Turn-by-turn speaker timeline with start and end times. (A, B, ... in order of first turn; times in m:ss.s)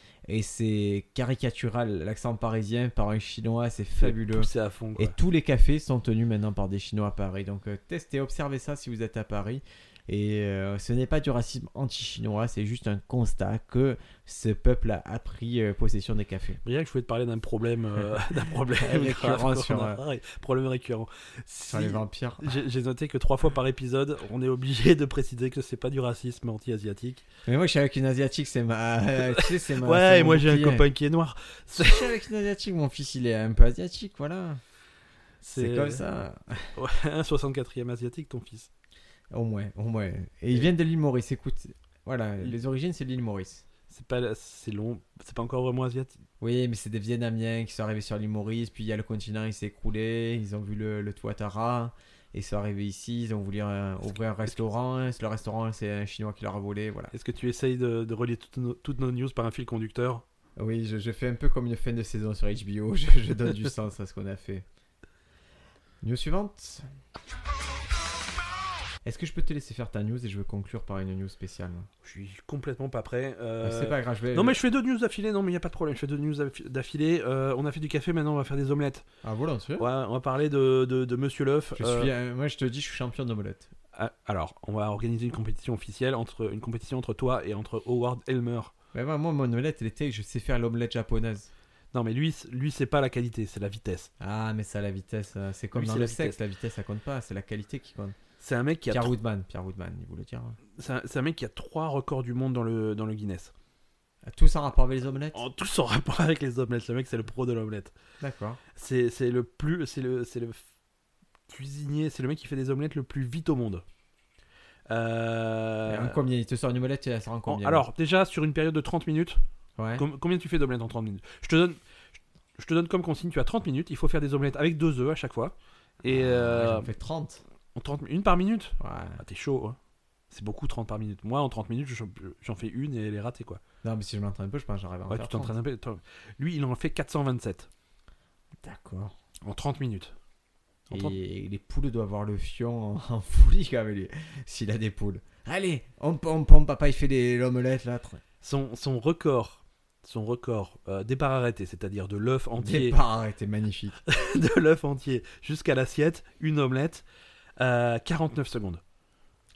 0:00.3-0:16.6 A
0:04.0-0:05.2 B
0:16.6-0:27.2 B
0:18.8-0:20.0 A
0:21.7-0:22.6 A
0:27.5-0:30.9 A
0:29.2-0:32.1 B
0:31.8-0:34.6 A
0:35.4-0:36.0 B
0:35.6-0:36.7 A
0:36.8-0:38.7 B
0:39.3-0:43.6 A
0:43.9-0:46.2 B
0:46.4-0:57.1 A
0:57.1-1:00.2 B
1:00.6-1:04.6 A
1:06.0-1:06.8 A
1:09.0-1:11.9 A
1:12.0-1:19.1 B
1:13.6-1:14.6 A
1:19.2-1:19.9 A
1:19.8-1:22.1 B
1:21.8-1:23.7 A
1:23.9-1:28.7 B
1:28.9-1:31.5 A
1:31.9-1:34.1 B
1:34.2-1:38.2 A
1:35.7-1:36.4 B
1:38.4-1:39.1 B
1:38.9-1:40.6 A
1:40.8-1:43.5 B
1:44.2-1:45.4 A
1:45.3-1:47.9 B
1:48.2-1:48.6 A
1:48.8-1:50.6 B
1:51.5-1:53.8 B
1:54.9-1:56.2 B
1:55.9-1:57.8 A
1:57.5-1:59.4 B
1:59.8-2:00.0 A
2:00.0-2:01.8 B
2:02.6-2:06.9 B
2:06.1-2:07.4 A
2:07.8-2:09.8 B
2:08.8-2:09.2 A
2:10.3-2:13.6 B
2:13.8-2:15.5 A
2:15.1-2:17.7 B
2:18.6-2:19.1 A
2:19.4-2:20.1 B
2:20.9-2:21.2 B
2:20.9-2:28.2 A
2:28.4-2:33.0 B
2:32.6-2:34.0 A
2:34.1-2:37.0 B
2:37.6-2:38.8 B